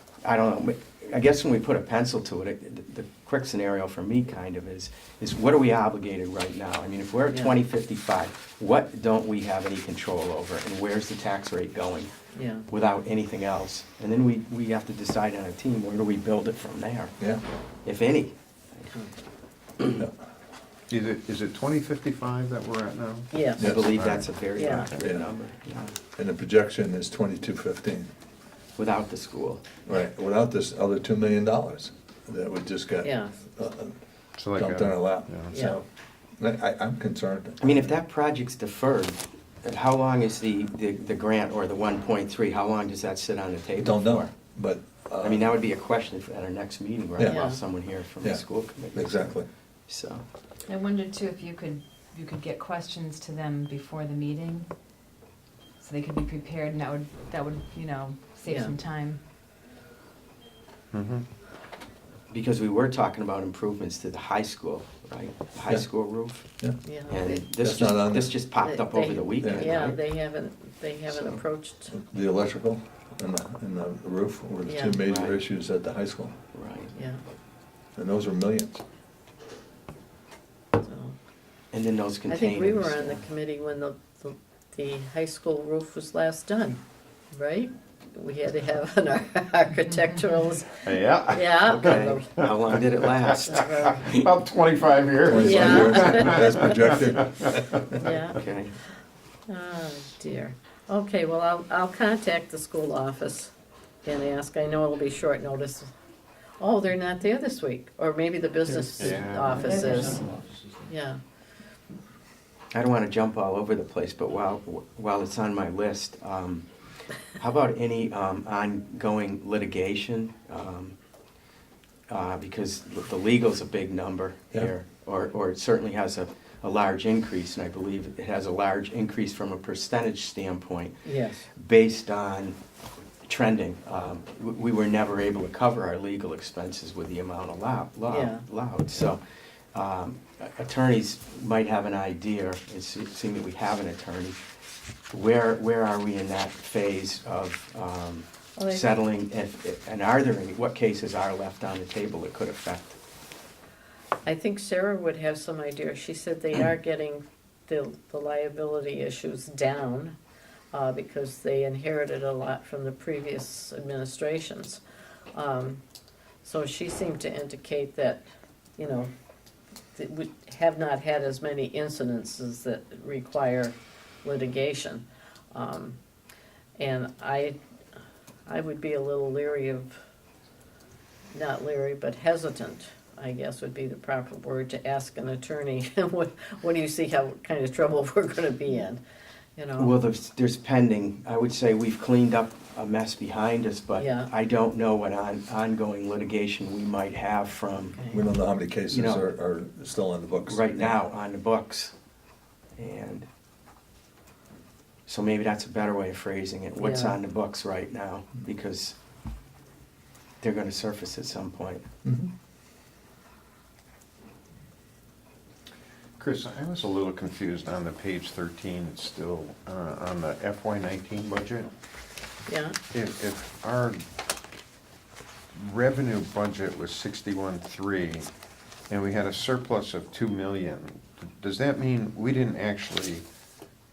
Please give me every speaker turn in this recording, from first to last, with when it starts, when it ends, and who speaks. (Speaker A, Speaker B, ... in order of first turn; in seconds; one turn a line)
Speaker A: 0.2-12.1
Speaker B: 12.3-12.7
Speaker A: 12.7-17.1
Speaker A: 17.8-18.9
Speaker C: 20.9-25.0
Speaker B: 23.3-23.7
Speaker D: 23.6-23.9
Speaker A: 23.6-25.9
Speaker B: 24.6-24.9
Speaker D: 25.0-25.3
Speaker D: 26.1-28.1
Speaker A: 28.8-29.6
Speaker D: 29.9-34.0
Speaker B: 33.0-33.4
Speaker C: 34.4-35.6
Speaker D: 34.5-35.9
Speaker B: 35.5-35.8
Speaker D: 36.4-38.0
Speaker A: 37.6-44.3
Speaker D: 43.8-45.5
Speaker A: 45.2-49.4
Speaker D: 47.2-47.5
Speaker B: 47.3-47.6
Speaker D: 48.2-49.5
Speaker A: 49.9-50.2
Speaker E: 50.7-54.7
Speaker E: 55.8-59.2
Speaker B: 58.5-58.7
Speaker C: 60.9-61.2
Speaker A: 62.3-66.5
Speaker B: 66.8-67.5
Speaker A: 67.1-70.0
Speaker D: 67.6-68.3
Speaker B: 68.6-72.0
Speaker D: 69.4-70.0
Speaker D: 71.9-76.3
Speaker B: 74.7-75.0
Speaker A: 75.0-75.4
Speaker A: 76.5-77.0
Speaker B: 76.9-77.2
Speaker D: 78.0-78.8
Speaker B: 80.8-81.2
Speaker A: 81.7-83.2
Speaker B: 82.3-86.8
Speaker B: 87.3-92.2
Speaker C: 90.8-98.0
Speaker A: 91.7-94.3
Speaker B: 93.5-94.1
Speaker D: 95.3-98.0
Speaker B: 95.3-97.0
Speaker B: 98.0-98.4
Speaker A: 98.3-98.8
Speaker B: 99.5-103.5
Speaker B: 104.0-105.9
Speaker B: 106.6-110.3
Speaker C: 109.0-109.8
Speaker E: 109.6-110.4
Speaker B: 110.9-111.2
Speaker A: 112.7-116.7
Speaker A: 117.2-121.0
Speaker A: 122.1-132.6
Speaker B: 131.0-131.5
Speaker A: 133.2-139.2
Speaker B: 138.1-138.4
Speaker A: 139.7-144.4
Speaker A: 145.1-153.0
Speaker B: 148.6-148.9
Speaker B: 154.2-160.2
Speaker B: 160.7-164.8
Speaker B: 165.3-165.8
Speaker B: 166.4-168.2
Speaker B: 168.8-169.1
Speaker B: 169.9-176.0
Speaker B: 176.8-177.6
Speaker B: 178.5-179.9
Speaker B: 181.3-189.0
Speaker B: 189.6-189.9
Speaker A: 189.8-198.0
Speaker B: 193.9-194.3
Speaker B: 198.0-198.2
Speaker D: 198.1-200.9
Speaker A: 198.9-199.3
Speaker A: 200.5-201.9
Speaker A: 202.8-203.3
Speaker A: 205.1-209.0
Speaker B: 206.8-207.2
Speaker A: 210.4-211.9
Speaker D: 212.1-212.3
Speaker C: 216.2-221.7
Speaker B: 222.5-222.8
Speaker C: 222.9-224.0
Speaker C: 225.6-228.3
Speaker C: 228.9-233.3